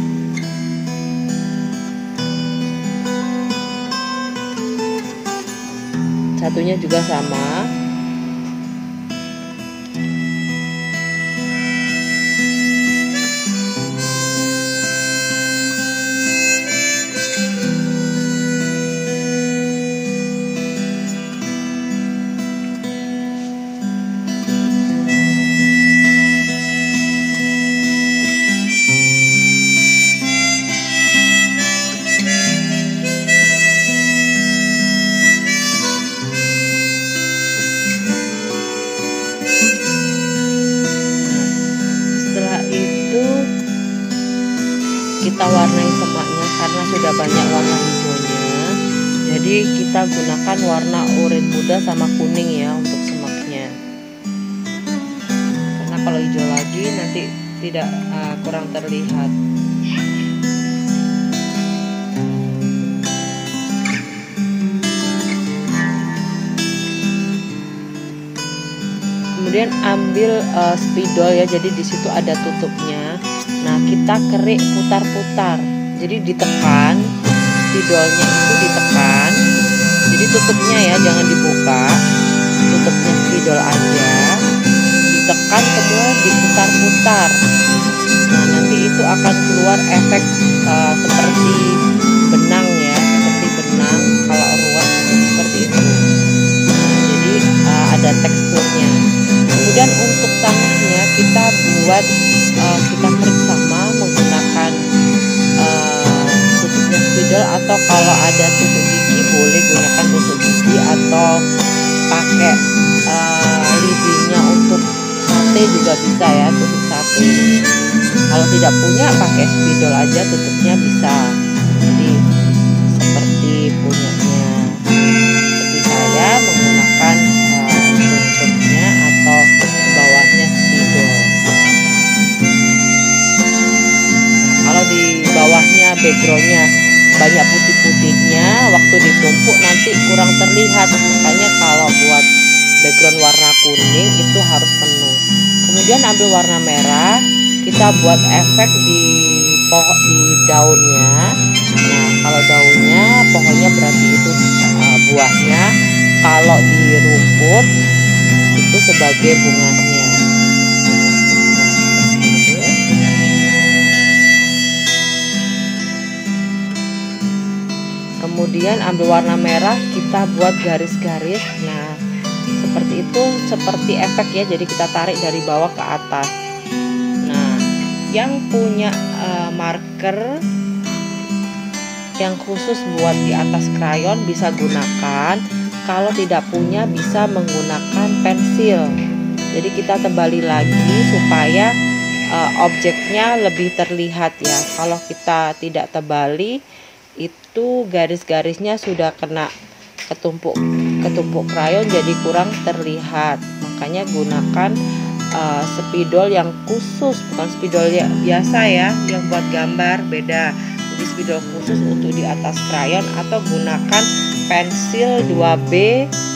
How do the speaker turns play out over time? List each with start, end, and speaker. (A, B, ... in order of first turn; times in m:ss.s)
0:06.4-0:07.6 A
0:41.2-0:41.5 A
0:42.2-0:43.3 A
0:45.2-0:48.5 A
0:49.3-0:53.7 A
0:55.8-0:59.3 A
1:09.4-1:13.1 A
1:13.6-1:17.0 A
1:17.6-1:19.4 A
1:20.1-1:21.9 A
1:22.7-1:24.3 A
1:25.1-1:27.4 A
1:28.3-1:31.6 A
1:32.3-1:35.9 A
1:36.7-1:38.9 A
1:39.6-1:42.0 A
1:42.6-1:44.7 A
1:45.6-1:51.3 A
1:52.1-1:52.6 A
1:53.1-1:57.4 A
1:58.3-2:01.2 A
2:01.8-2:02.1 A
2:03.0-2:04.5 A
2:05.6-2:11.3 A
2:14.4-2:16.7 A
2:17.2-2:22.2 A
2:22.8-2:27.1 A
2:27.6-2:31.2 A
2:31.9-2:35.7 A
2:36.2-2:37.6 A
2:38.6-2:40.1 A
2:41.5-2:42.6 A
2:48.2-2:51.9 A
2:52.6-2:56.3 A
2:57.3-2:57.5 A
2:58.1-3:00.3 A
3:02.2-3:08.9 A
3:09.5-3:11.7 A
3:12.3-3:16.6 A
3:17.2-3:19.5 A
3:20.1-3:24.7 A
3:25.4-3:36.0 A